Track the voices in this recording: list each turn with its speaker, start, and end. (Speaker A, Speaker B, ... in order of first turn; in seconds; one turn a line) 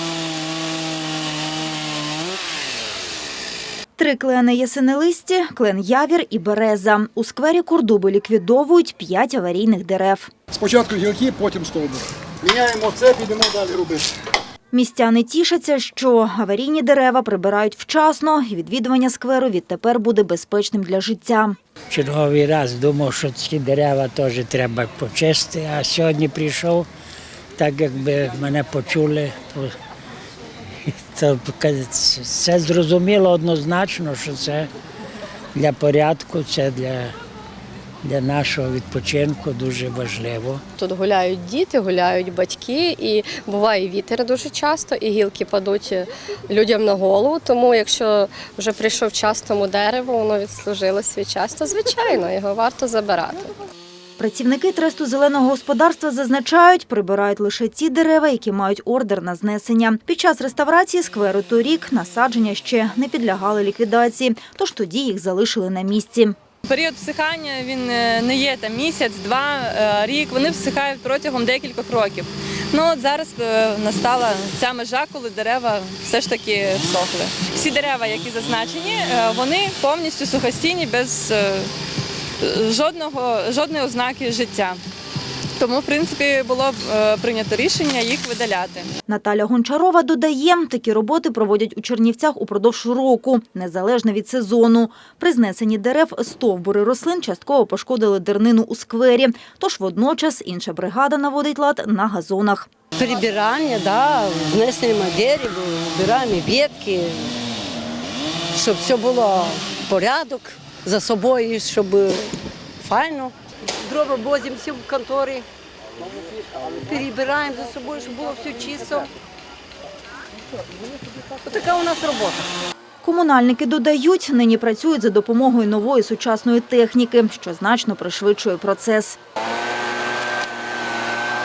Speaker A: 4.0-10.3
Speaker B: 10.5-14.1
Speaker A: 14.7-21.6
Speaker C: 21.9-26.9
Speaker C: 27.6-29.7
Speaker C: 30.9-34.7
Speaker C: 35.5-37.1
Speaker C: 38.0-40.6
Speaker D: 40.8-53.5
Speaker A: 54.2-66.4
Speaker E: 66.7-81.7
Speaker E: 82.4-84.8
Speaker E: 85.6-88.9
Speaker A: 89.1-102.7
Speaker F: 103.0-107.3
Speaker F: 108.5-115.5
Speaker F: 116.5-119.1
Speaker F: 121.4-122.5
Speaker A: 123.0-129.2